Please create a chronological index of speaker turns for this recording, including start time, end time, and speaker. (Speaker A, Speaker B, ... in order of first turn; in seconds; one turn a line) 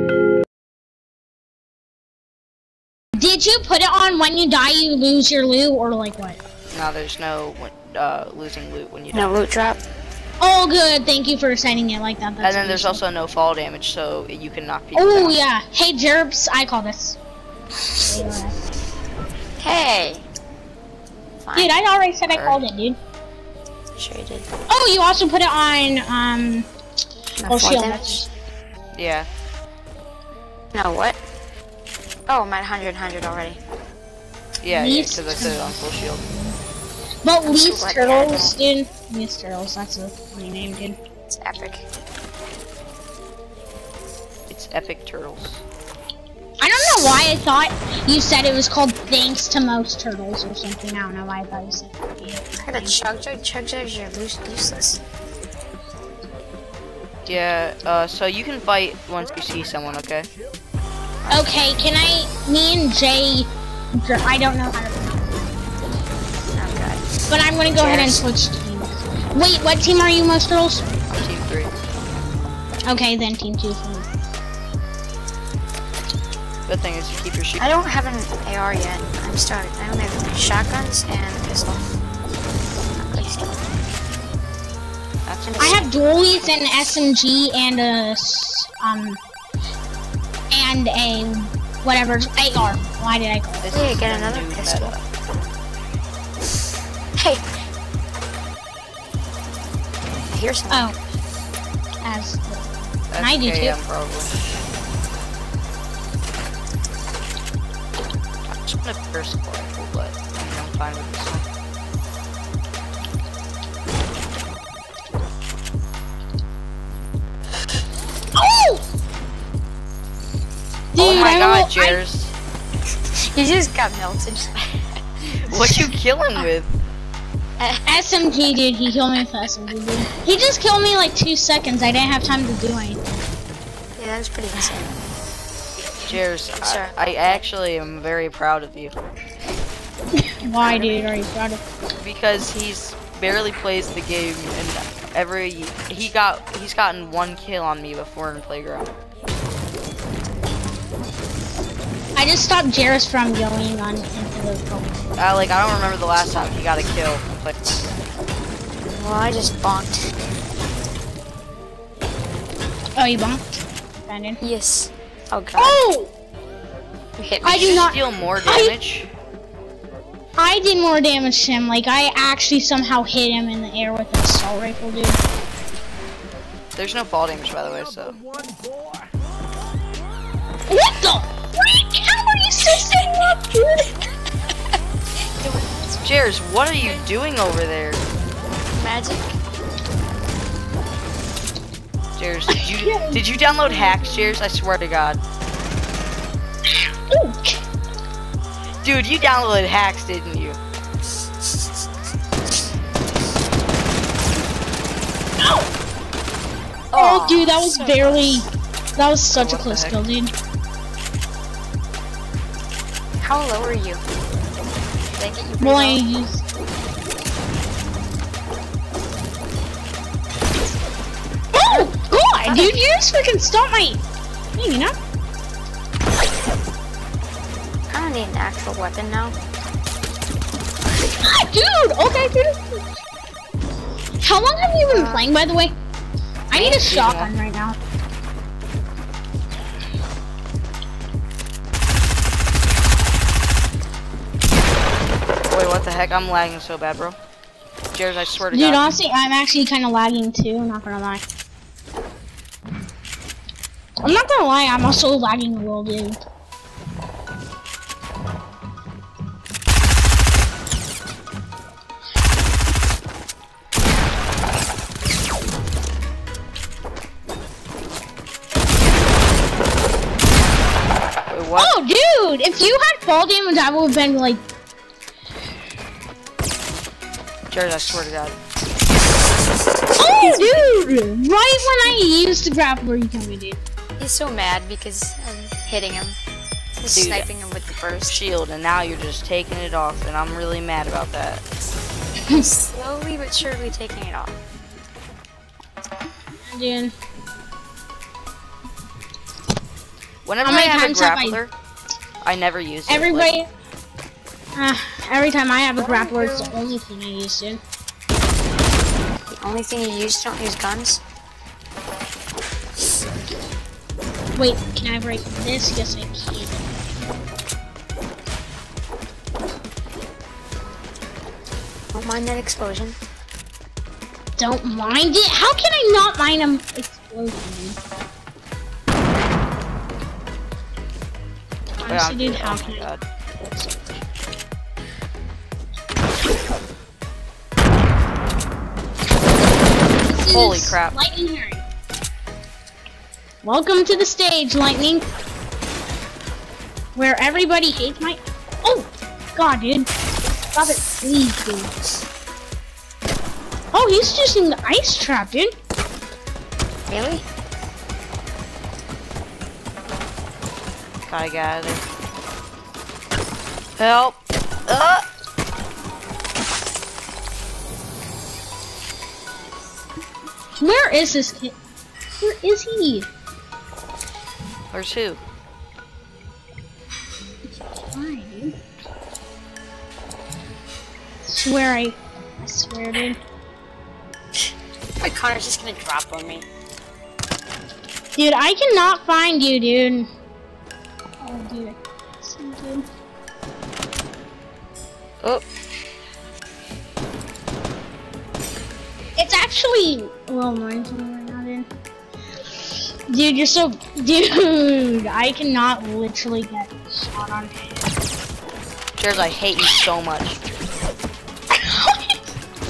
Speaker A: 3.2-6.4
Speaker B: 6.7-9.3
Speaker C: 9.1-9.8
Speaker A: 10.4-13.0
Speaker B: 12.4-15.4
Speaker A: 14.9-17.2
Speaker A: 18.0-18.6
Speaker C: 19.6-20.3
Speaker C: 21.4-21.8
Speaker A: 21.6-23.0
Speaker B: 22.3-22.6
Speaker C: 24.0-24.5
Speaker A: 24.7-26.7
Speaker C: 27.4-28.3
Speaker A: 27.5-28.3
Speaker B: 28.9-29.3
Speaker C: 30.7-31.2
Speaker C: 32.3-33.6
Speaker B: 34.6-36.3
Speaker A: 34.7-35.8
Speaker A: 37.2-41.0
Speaker C: 37.4-38.5
Speaker C: 41.3-41.9
Speaker B: 44.5-45.6
Speaker A: 46.6-53.0
Speaker C: 52.6-55.0
Speaker B: 57.3-60.3
Speaker A: 61.3-65.5
Speaker C: 66.5-67.2
Speaker A: 67.3-70.9
Speaker B: 67.8-68.2
Speaker B: 71.1-71.7
Speaker A: 72.8-74.1
Speaker B: 76.7-77.6
Speaker C: 77.6-82.0
Speaker C: 83.0-83.6
Speaker B: 85.3-85.8
Speaker C: 85.5-85.9
Speaker A: 85.6-89.2
Speaker A: 90.5-93.7
Speaker B: 93.6-95.0
Speaker C: 93.7-94.9
Speaker C: 97.2-97.5
Speaker C: 100.3-100.9
Speaker A: 100.7-101.0
Speaker A: 102.0-103.8
Speaker B: 103.1-104.4
Speaker B: 108.5-111.5
Speaker A: 118.4-118.8
Speaker A: 120.9-122.0
Speaker B: 121.0-122.3
Speaker C: 123.2-125.9
Speaker B: 125.5-126.7
Speaker C: 127.6-127.9
Speaker A: 127.9-133.0
Speaker C: 134.0-135.0
Speaker B: 136.1-138.9
Speaker C: 136.6-137.4
Speaker A: 140.2-141.6
Speaker C: 140.6-141.1
Speaker B: 142.0-148.9
Speaker A: 152.2-154.9
Speaker B: 155.2-157.6
Speaker C: 158.9-160.0
Speaker A: 163.0-164.4
Speaker C: 164.4-165.8
Speaker A: 165.6-166.1
Speaker C: 167.2-167.9
Speaker A: 167.4-168.8
Speaker B: 167.4-169.1
Speaker A: 170.4-175.2
Speaker B: 176.8-178.2
Speaker A: 180.7-183.9
Speaker C: 185.4-186.1
Speaker B: 186.0-188.0
Speaker C: 188.7-189.4
Speaker B: 192.2-195.2
Speaker A: 192.5-194.3
Speaker A: 196.7-197.6
Speaker B: 198.8-200.6
Speaker A: 205.4-205.7
Speaker C: 206.9-208.5
Speaker A: 206.9-210.3
Speaker B: 209.4-210.0
Speaker C: 213.2-214.0
Speaker C: 215.2-216.0
Speaker A: 215.6-216.4
Speaker A: 221.5-224.0
Speaker C: 221.6-221.9
Speaker C: 222.4-222.8
Speaker A: 224.6-224.9
Speaker C: 227.9-229.4
Speaker A: 231.2-232.8
Speaker A: 234.2-235.8
Speaker C: 234.9-235.2
Speaker A: 236.5-237.8
Speaker B: 236.5-237.3
Speaker B: 245.5-247.2
Speaker B: 247.9-248.9
Speaker A: 248.5-251.2
Speaker A: 254.0-256.2
Speaker B: 271.3-271.7
Speaker A: 271.6-274.4
Speaker B: 277.5-278.4
Speaker A: 280.0-283.6
Speaker C: 280.2-280.7
Speaker C: 284.0-286.2
Speaker C: 286.8-288.2
Speaker B: 286.9-287.3
Speaker B: 288.1-291.4
Speaker C: 292.3-294.4
Speaker A: 296.4-296.9
Speaker B: 300.3-301.5
Speaker A: 300.4-301.4
Speaker B: 302.2-303.3
Speaker A: 302.9-303.5
Speaker A: 304.6-307.6
Speaker C: 305.8-306.6
Speaker C: 309.3-311.0
Speaker A: 314.4-316.6
Speaker C: 321.9-323.0
Speaker A: 324.4-327.8
Speaker A: 331.8-332.9
Speaker B: 331.9-334.0
Speaker A: 340.1-341.6
Speaker B: 340.3-341.0
Speaker A: 343.4-345.1
Speaker A: 346.9-349.9
Speaker A: 350.5-351.7
Speaker A: 353.7-355.5
Speaker C: 356.9-357.2
Speaker B: 361.1-361.8
Speaker B: 363.8-365.1
Speaker A: 370.6-371.6
Speaker A: 372.2-373.1
Speaker B: 374.7-375.2
Speaker A: 377.9-378.6
Speaker A: 381.2-383.2
Speaker C: 385.0-386.5
Speaker A: 388.2-390.1
Speaker A: 391.2-392.9
Speaker A: 399.2-401.7
Speaker A: 403.1-407.7
Speaker B: 409.0-410.4
Speaker A: 411.5-412.2